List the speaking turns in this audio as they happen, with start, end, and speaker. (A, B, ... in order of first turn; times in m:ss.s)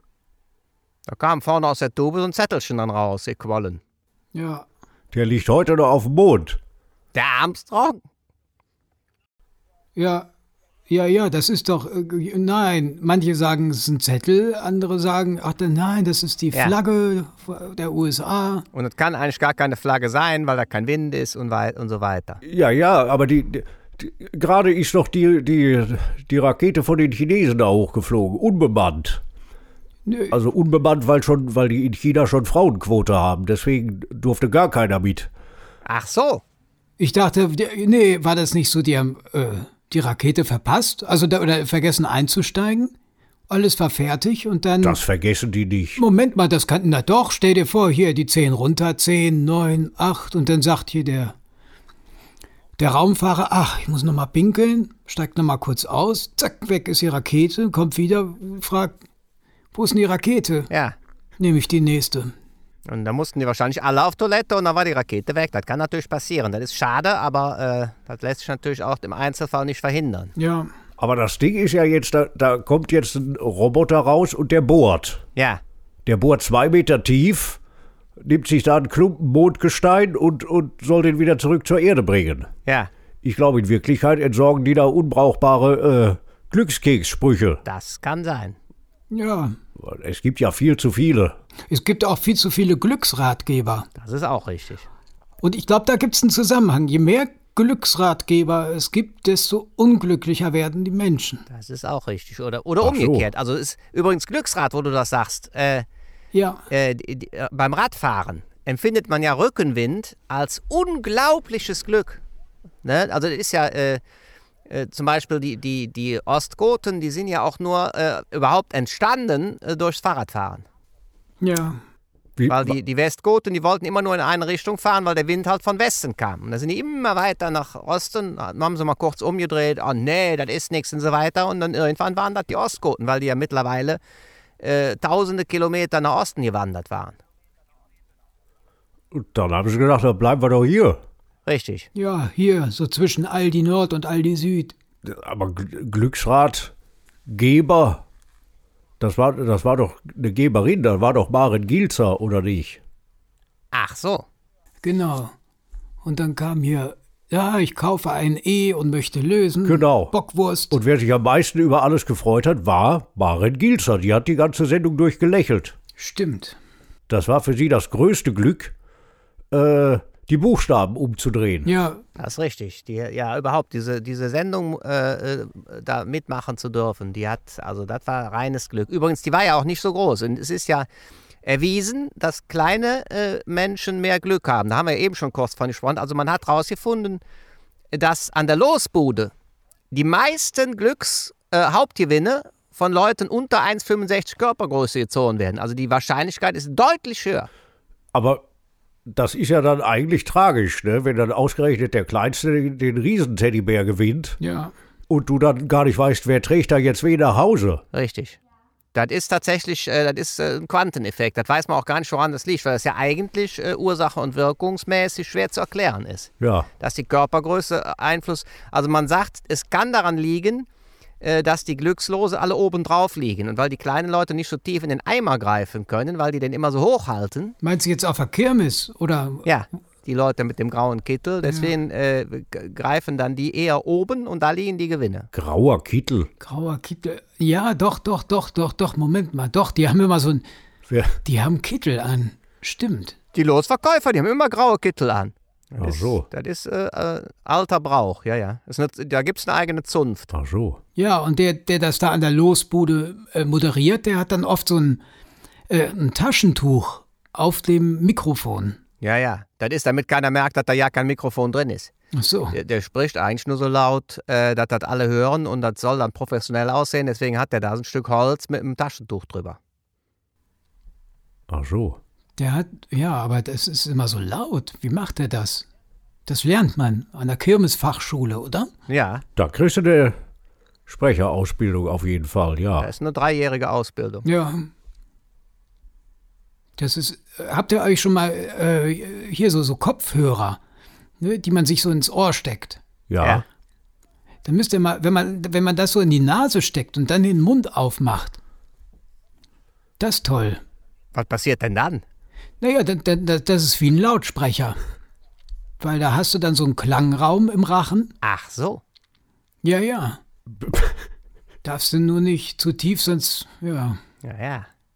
0:01.1-0:03.8 A
0:04.3-0:04.6 B
0:05.1-0:06.6 C
0:07.1-0:08.0 A
0:10.0-0:10.3 B
0:10.9-0:18.6 B
0:18.7-0:22.4 A
0:22.4-0:29.2 C
0:30.0-0:30.3 B
0:30.3-0:35.3 C
0:35.8-0:36.4 A
0:37.0-0:42.9 B
0:43.5-0:45.0 B
0:44.8-0:46.0 C
0:46.0-0:51.3 B
0:52.8-0:59.0 B
0:59.7-1:00.7 B
1:00.7-1:01.0 A
1:01.4-1:02.3 B
1:02.8-1:10.3 A
1:10.4-1:10.7 B
1:11.0-1:15.2 C
1:15.4-1:15.6 A
1:16.0-1:17.6 C
1:18.2-1:22.5 C
1:22.6-1:22.9 A
1:23.2-1:27.6 C
1:27.6-1:28.6 A
1:29.1-1:29.6 B
1:29.8-1:31.4 C
1:31.7-1:33.9 B
1:33.9-1:34.9 A
1:35.4-1:41.4 B
1:41.5-1:45.8 A
1:42.8-1:43.2 C
1:46.3-1:46.6 B
1:46.7-1:52.2 A
1:52.8-1:54.0 A
1:54.7-2:00.6 A
2:01.4-2:01.8 B
2:02.4-2:02.7 C
2:02.5-2:14.0 A
2:14.6-2:17.2 A
2:19.1-2:21.0 C
2:21.4-2:21.9 A
2:21.9-2:24.7 B
2:25.0-2:26.7 C
2:27.3-2:28.0 C
2:29.0-2:32.8 C
2:33.7-2:34.2 A
2:34.8-2:35.3 B
2:36.0-2:40.8 B
2:39.6-2:40.1 C
2:40.7-2:45.8 C
2:46.0-2:46.6 B
2:47.1-2:48.7 C
2:49.5-2:51.7 C
2:51.6-2:52.0 B
2:52.2-3:00.9 A
3:01.4-3:07.2 A
3:07.9-3:09.3 A
3:09.9-3:17.5 A
3:18.1-3:18.4 C
3:19.0-3:24.4 C
3:24.4-3:24.7 B
3:25.1-3:27.8 C
3:27.9-3:28.4 A
3:28.9-3:40.7 A
3:36.4-3:36.7 C
3:41.2-3:47.6 A
3:47.6-3:49.4 B
3:49.4-3:55.3 A
3:55.3-3:56.3 C
3:56.4-4:00.4 B
4:00.9-4:01.2 C
4:01.2-4:03.2 B
4:03.3-4:10.3 A
4:05.8-4:06.2 C
4:10.3-4:10.8 C
4:11.0-4:15.0 B
4:15.7-4:18.8 B
4:19.0-4:21.9 A
4:22.1-4:22.6 B
4:22.5-4:29.6 A
4:31.5-4:32.0 C
4:32.4-4:35.6 B
4:36.3-4:38.7 B
4:38.9-4:39.2 A
4:39.4-4:40.2 C
4:40.9-4:42.9 C
4:42.8-4:44.2 A
4:44.2-4:44.7 B
4:46.8-4:50.6 B
4:51.2-4:52.8 B
4:53.1-4:53.4 C
4:54.4-4:58.4 B
5:00.0-5:00.6 B
5:01.1-5:02.0 A
5:02.6-5:04.8 B
5:05.8-5:08.1 B
5:08.2-5:08.8 A
5:09.6-5:10.2 B
5:10.6-5:11.0 C
5:11.6-5:14.0 B
5:14.2-5:14.7 A